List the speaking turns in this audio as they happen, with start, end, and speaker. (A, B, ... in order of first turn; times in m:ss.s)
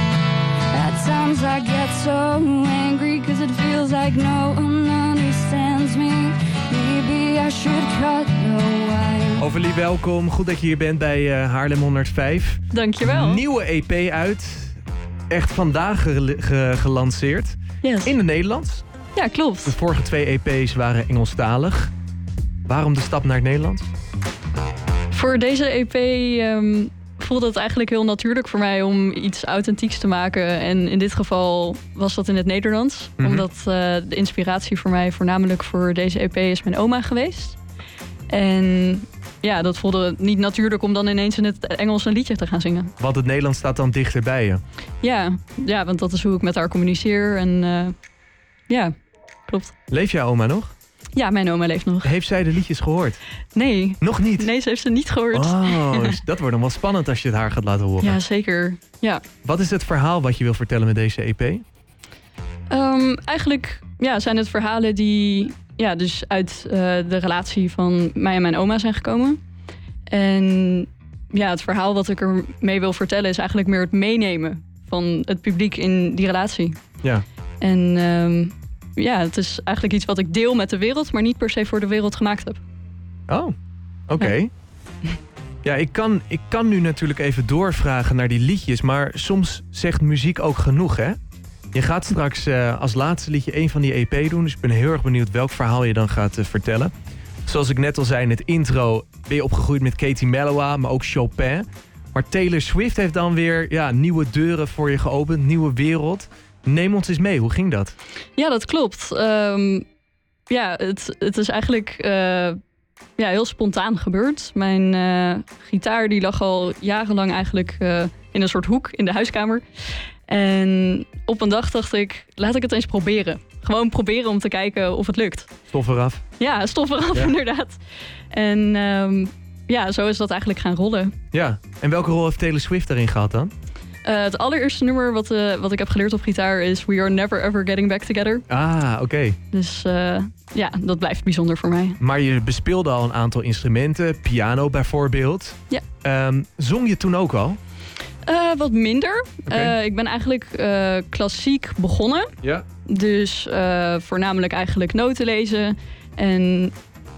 0:00.7-0:09.4 A
0:09.4-0:14.8 B
0:12.7-0:13.4 C
0:15.3-0:18.8 B
0:17.8-0:18.1 C
0:19.2-0:19.8 C
0:19.7-0:21.9 B
0:22.7-0:23.9 B
0:25.1-0:37.6 C
0:33.2-0:33.5 B
0:38.3-0:42.9 C
0:43.0-0:44.6 B
0:45.0-0:48.0 C
0:48.7-0:49.0 C
0:49.5-0:49.7 C
0:49.9-0:50.7 B
0:51.2-0:52.1 C
0:52.0-0:53.2 B
0:53.6-0:56.2 C
0:54.0-0:54.5 B
0:55.3-0:58.2 B
0:58.0-0:59.2 C
0:59.4-1:01.6 B
1:02.7-1:09.4 C
1:10.1-1:16.8 C
1:17.6-1:22.6 C
1:23.3-1:23.6 B
1:24.1-1:24.5 B
1:25.6-1:31.2 B
1:31.7-1:36.9 B
1:37.5-1:48.0 B
1:48.4-1:49.8 C
1:50.5-1:52.6 C
1:53.2-2:05.5 C
2:05.7-2:06.2 B
2:06.4-2:07.8 C
2:08.3-2:11.2 C
2:11.3-2:13.5 B
2:14.0-2:18.4 C
2:18.5-2:19.4 B
2:19.5-2:22.0 C
2:22.0-2:27.6 B
2:28.2-2:32.3 C
2:29.5-2:29.8 B
2:32.9-2:36.8 C